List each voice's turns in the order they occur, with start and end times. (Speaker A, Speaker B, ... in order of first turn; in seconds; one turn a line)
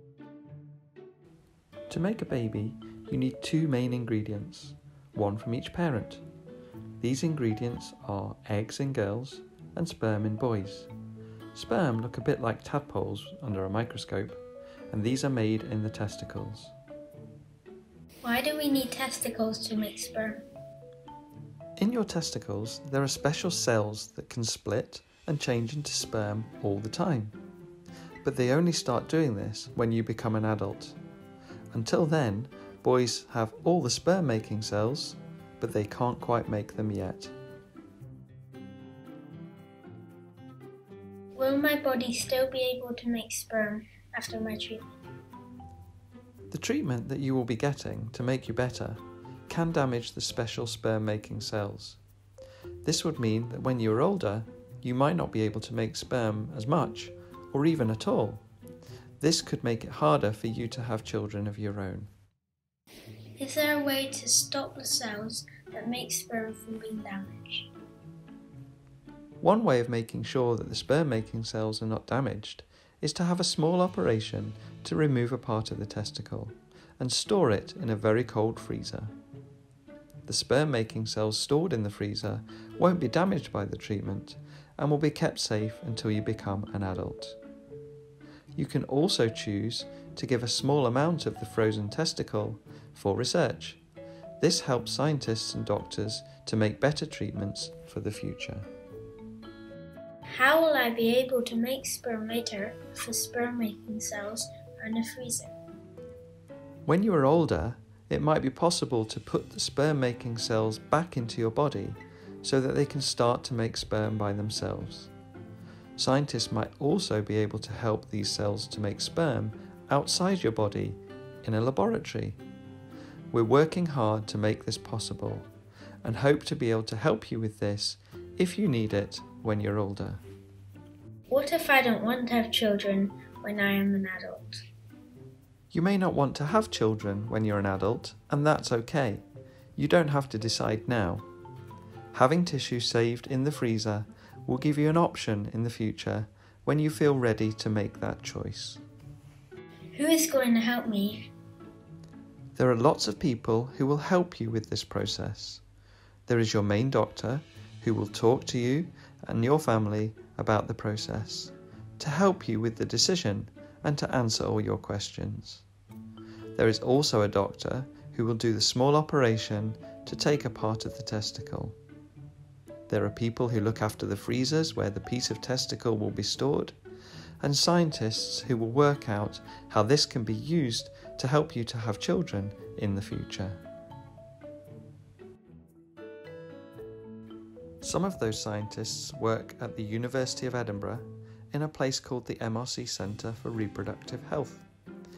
Speaker A: 1.9-6.2
Speaker A: 7.0-10.9
Speaker A: 11.5-14.4
Speaker A: 14.9-16.7
Speaker B: 18.2-20.4
Speaker A: 21.8-27.3
Speaker A: 28.2-30.9
Speaker A: 31.7-37.3
Speaker B: 41.3-45.0
Speaker A: 46.5-52.0
Speaker A: 52.8-58.4
Speaker A: 59.2-62.1
Speaker B: 63.4-67.7
Speaker A: 69.4-79.1
Speaker A: 80.2-87.4
Speaker A: 88.5-93.8
Speaker A: 94.4-98.7
Speaker B: 100.3-105.6
Speaker A: 106.8-115.1
Speaker A: 116.0-122.4
Speaker A: 123.3-125.5
Speaker A: 126.0-130.2
Speaker B: 131.3-134.6
Speaker A: 135.7-141.2
Speaker A: 142.1-148.8
Speaker B: 149.9-151.3
Speaker A: 152.5-155.6
Speaker A: 156.3-165.6
Speaker A: 166.6-171.8
Speaker A: 172.9-176.8
Speaker A: 177.4-183.6
Speaker A: 187.8-194.7